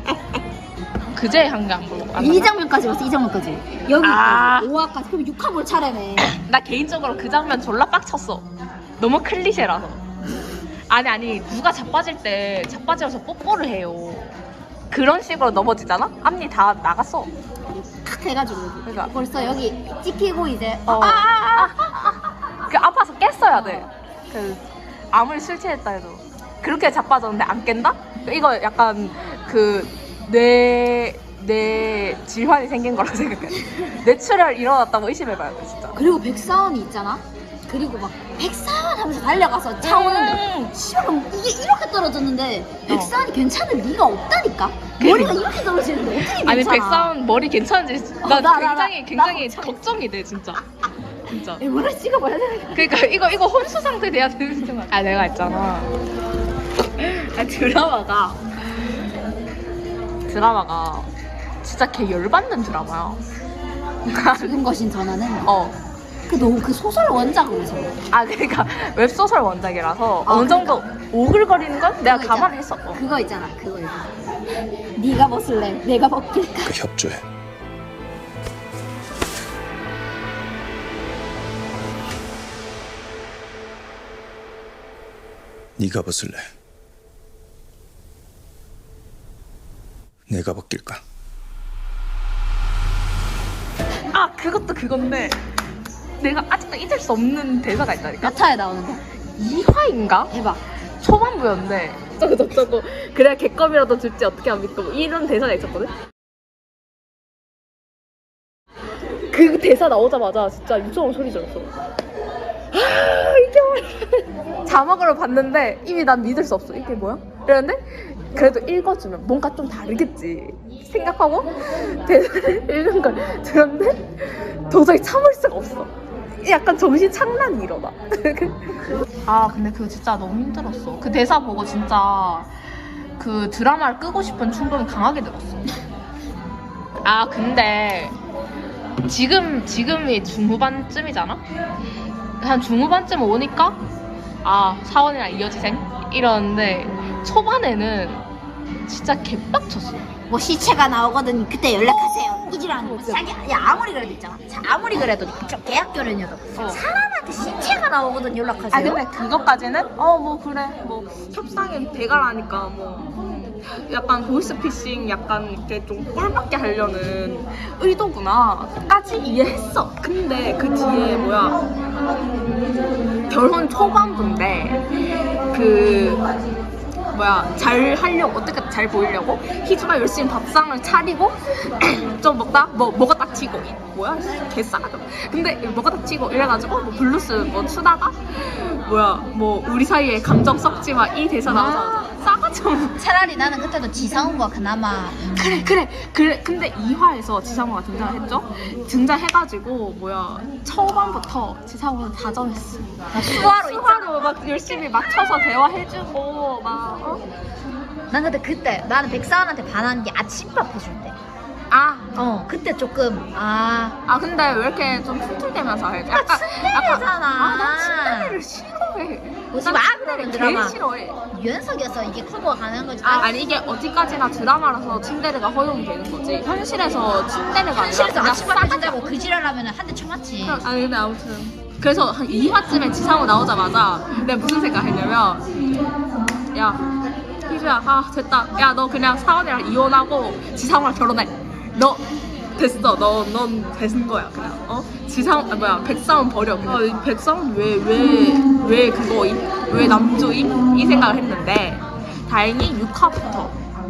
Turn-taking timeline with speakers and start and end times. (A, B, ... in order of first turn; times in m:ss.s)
0:01.1-0:02.5 A
0:02.2-0:06.3 B
0:04.0-0:04.7 A
0:06.2-0:08.4 A
0:09.0-0:10.0 A
0:10.9-0:14.3 A
0:14.9-0:17.3 A
0:17.7-0:22.2 B
0:18.8-0:19.1 A
0:20.9-0:36.0 A
0:23.6-0:23.9 B
0:35.9-0:47.1 B
0:39.8-0:40.7 A
0:42.9-0:43.1 A
0:45.0-0:45.4 A
0:46.2-0:50.6 A
0:48.2-0:49.8 B
0:51.3-0:51.6 A
0:51.6-0:53.0 B
0:52.8-0:55.9 A
0:57.0-0:58.4 A
1:00.3-1:01.1 A
1:01.6-1:03.2 A
1:04.1-1:04.5 A
1:04.3-1:05.5 B
1:05.4-1:05.8 A
1:06.3-1:08.0 B
1:08.1-1:13.0 A
1:10.2-1:10.9 B
1:12.0-1:14.1 B
1:15.0-1:16.7 B
1:16.6-1:17.3 C
1:25.8-1:26.5 C
1:30.3-1:31.0 C
1:34.1-1:35.4 A
1:36.2-1:38.4 A
1:38.2-1:39.0 B
1:39.4-1:40.3 A
1:40.3-1:40.6 B
1:41.0-1:45.9 A
1:49.3-1:51.7 A
1:52.7-2:05.9 A
2:06.4-2:08.7 A
2:09.3-2:12.5 A
2:13.2-2:15.6 A
2:17.0-2:18.2 A
2:19.0-2:21.4 A
2:22.4-2:23.8 A
2:24.4-2:28.2 A
2:28.9-2:30.0 A
2:30.3-2:39.0 B
2:32.8-2:33.3 A
2:36.6-2:36.8 A
2:38.7-2:51.6 A
2:53.3-2:54.8 A
2:55.5-2:56.2 A
2:57.1-3:13.0 A
3:11.5-3:12.1 B
3:13.0-3:15.6 B
3:15.2-3:27.2 A
3:23.1-3:25.3 B
3:28.1-3:31.2 B
3:31.7-3:32.1 A
3:32.2-3:34.0 B
3:34.1-3:41.2 A
3:36.1-3:38.4 B
3:39.5-3:40.8 B
3:41.3-3:43.4 B
3:43.0-3:49.1 A
3:47.7-3:50.6 B
3:50.4-3:55.6 A
3:56.5-3:56.9 A
3:57.5-4:13.6 A